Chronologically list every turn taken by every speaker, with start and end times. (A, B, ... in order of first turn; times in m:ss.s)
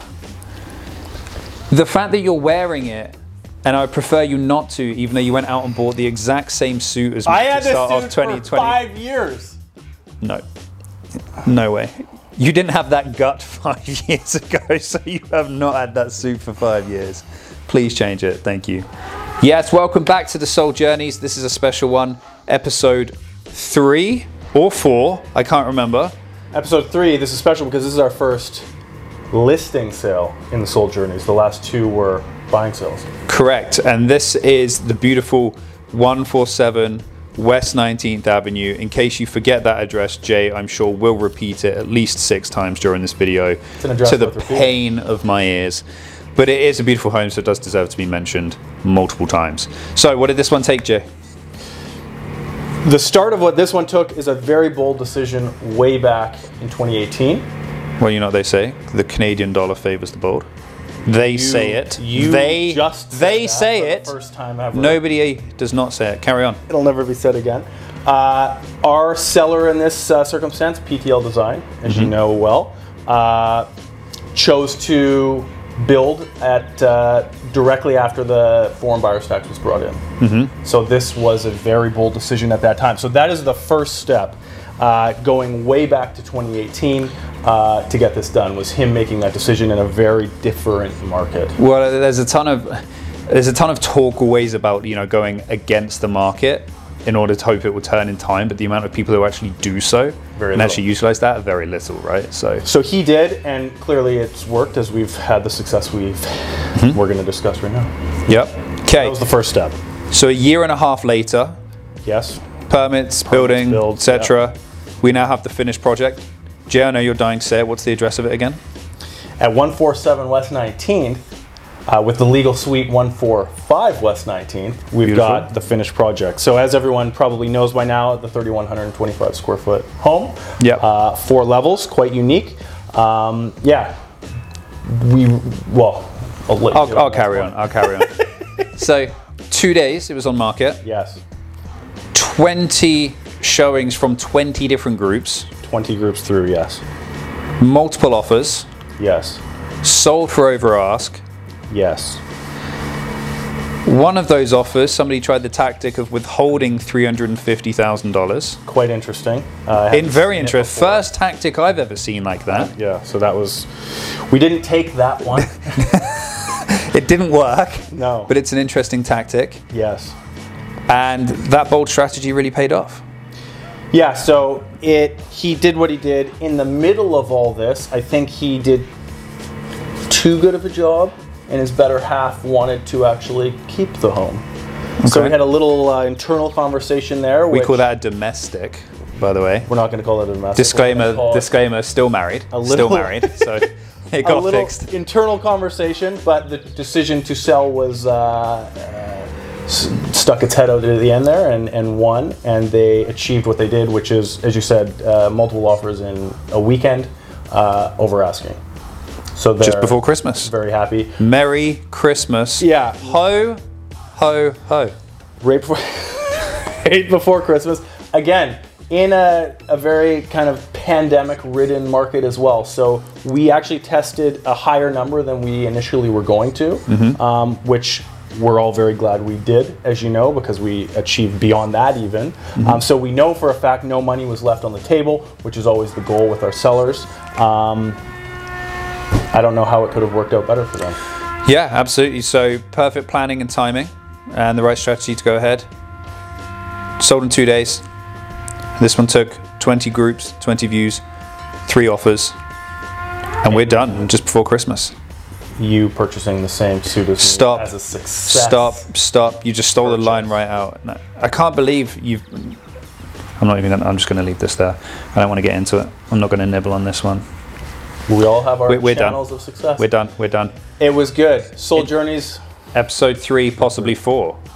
0:01.7-0:08.8 A
0:07.2-0:09.6 B
0:11.4-0:18.8 A
0:19.4-0:26.1 A
0:26.5-0:28.7 B
0:29.3-0:33.1 B
0:33.3-0:45.8 A
0:43.8-0:44.8 B
0:46.4-0:51.0 A
0:52.8-0:57.5 B
0:58.0-1:00.5 A
1:01.0-1:04.1 A
1:01.1-1:05.0 B
1:04.7-1:06.6 A
1:06.7-1:13.7 B
1:11.9-1:12.1 A
1:14.3-1:20.0 B
1:20.2-1:20.5 A
1:20.6-1:31.6 B
1:31.6-1:42.6 A
1:40.4-1:40.8 B
1:42.6-1:47.9 B
1:48.3-1:49.2 A
1:48.9-1:49.8 B
1:50.1-1:51.6 A
1:52.0-1:52.4 B
1:52.7-1:58.6 A
1:53.3-1:54.3 B
1:59.4-2:01.2 B
2:01.9-2:13.9 B
2:05.0-2:05.5 A
2:14.8-2:17.9 B
2:16.7-2:18.1 A
2:18.8-2:20.8 A
2:20.8-2:21.2 B
2:22.1-2:25.5 A
2:25.6-2:26.8 B
2:27.6-2:28.7 A
2:29.0-2:29.4 B
2:29.8-2:31.2 A
2:31.7-2:32.2 B
2:33.8-2:38.6 A
2:38.6-2:41.0 B
2:39.9-2:42.7 A
2:42.5-2:45.8 B
2:45.8-2:49.6 A
2:47.9-2:48.3 B
2:49.7-2:50.2 B
2:50.9-2:53.0 A
2:53.9-2:58.9 B
3:00.1-3:04.4 B
3:05.0-3:05.3 A
3:05.0-3:07.8 B
3:07.5-3:09.7 A
3:09.6-3:11.5 B
3:10.6-3:14.9 A
3:12.5-3:13.4 B
3:14.2-3:28.6 B
3:29.3-3:31.2 B
3:29.6-3:30.5 A
3:31.2-3:33.6 A
3:32.6-3:33.2 B
3:34.1-3:34.9 A
3:35.4-3:58.0 B
3:46.9-3:47.2 A
3:59.3-4:01.0 B
4:01.4-4:05.7 A
4:07.0-4:07.8 A
4:08.8-4:11.0 A
4:11.6-4:12.4 A
4:13.4-4:14.9 A
4:13.5-4:13.9 B
4:15.6-4:18.8 B
4:17.2-4:17.7 A
4:18.2-4:22.6 A
4:19.8-4:20.3 B
4:23.4-4:27.2 A
4:28.1-4:29.9 B
4:28.7-4:29.2 A
4:29.8-4:30.5 A
4:30.8-4:32.4 B
4:32.7-4:34.4 A